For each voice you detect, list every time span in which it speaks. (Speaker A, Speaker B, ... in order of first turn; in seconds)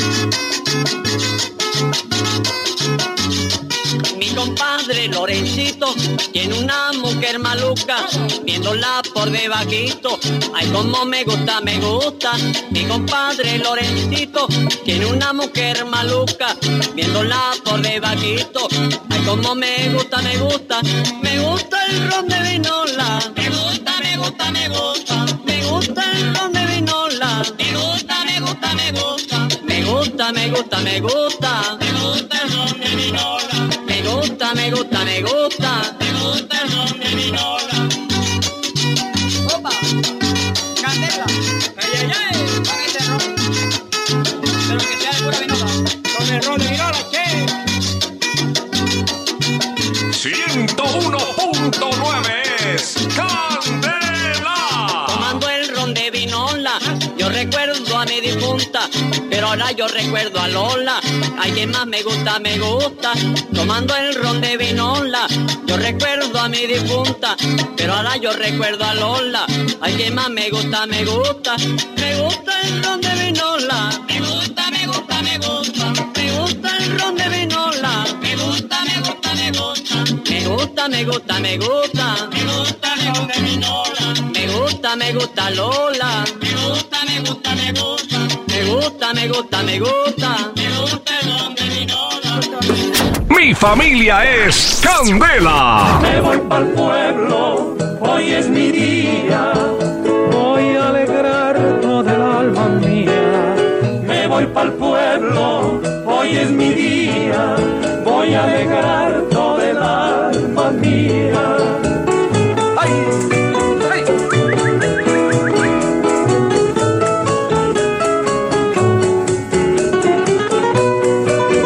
Speaker A: 4.1-37.8, 55.1-92.4
Speaker B: 40.8-43.2, 44.7-47.5
Speaker C: 50.1-55.4, 93.3-96.1
Speaker D: 96.0-111.8